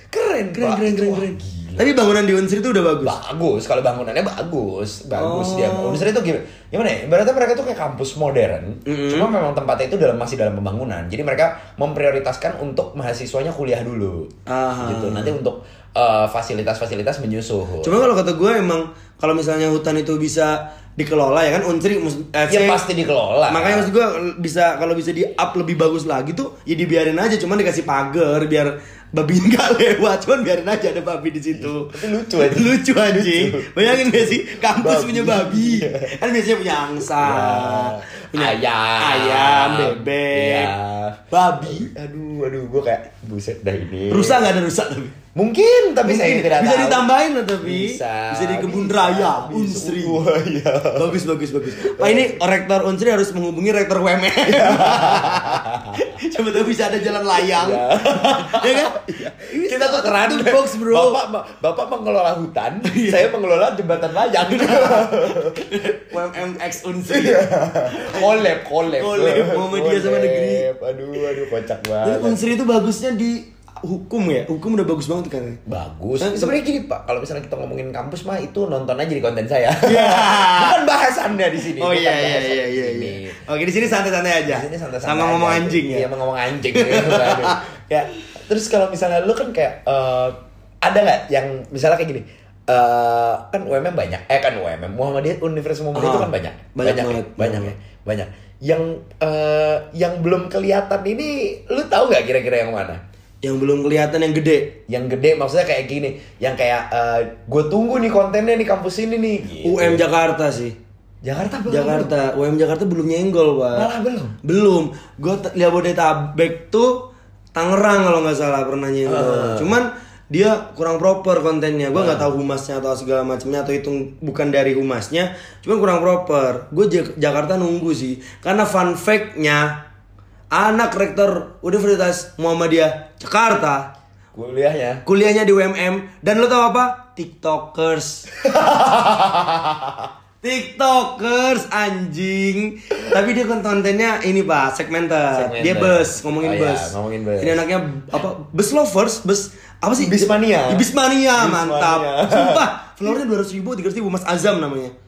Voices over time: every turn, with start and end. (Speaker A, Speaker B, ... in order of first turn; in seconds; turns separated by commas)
Speaker A: 0.1-1.9, Speaker B: 0.5-3.2, Speaker A: 3.0-18.0, Speaker B: 5.2-6.1, Speaker B: 8.9-9.3, Speaker B: 14.5-15.3, Speaker B: 17.8-22.8, Speaker A: 22.5-23.9, Speaker B: 23.5-40.7, Speaker A: 31.6-36.1, Speaker A: 37.1-44.5, Speaker B: 41.3-41.9, Speaker B: 44.1-45.2, Speaker A: 45.4-47.1, Speaker B: 46.0-50.2, Speaker A: 47.6-52.4, Speaker B: 51.0-61.2, Speaker A: 54.5-56.0, Speaker A: 57.4-65.6, Speaker B: 62.9-63.3, Speaker B: 64.4-70.7, Speaker A: 67.1-72.4, Speaker B: 72.0-75.6, Speaker A: 75.7-83.9, Speaker B: 76.2-76.6, Speaker B: 79.8-80.8, Speaker B: 81.8-86.1, Speaker A: 84.5-103.0, Speaker B: 86.7-87.6, Speaker B: 96.0-97.7, Speaker B: 103.4-104.8, Speaker A: 104.9-110.0, Speaker B: 109.6-110.8, Speaker A: 111.2-112.1, Speaker B: 111.7-113.9, Speaker A: 113.7-114.4, Speaker B: 114.4-129.8, Speaker A: 119.1-119.8, Speaker A: 121.9-122.3, Speaker B: 130.5-133.9, Speaker A: 134.3-135.0, Speaker B: 135.1-138.3, Speaker A: 138.4-140.1, Speaker B: 140.4-154.9, Speaker A: 145.3-147.7, Speaker A: 150.0-152.7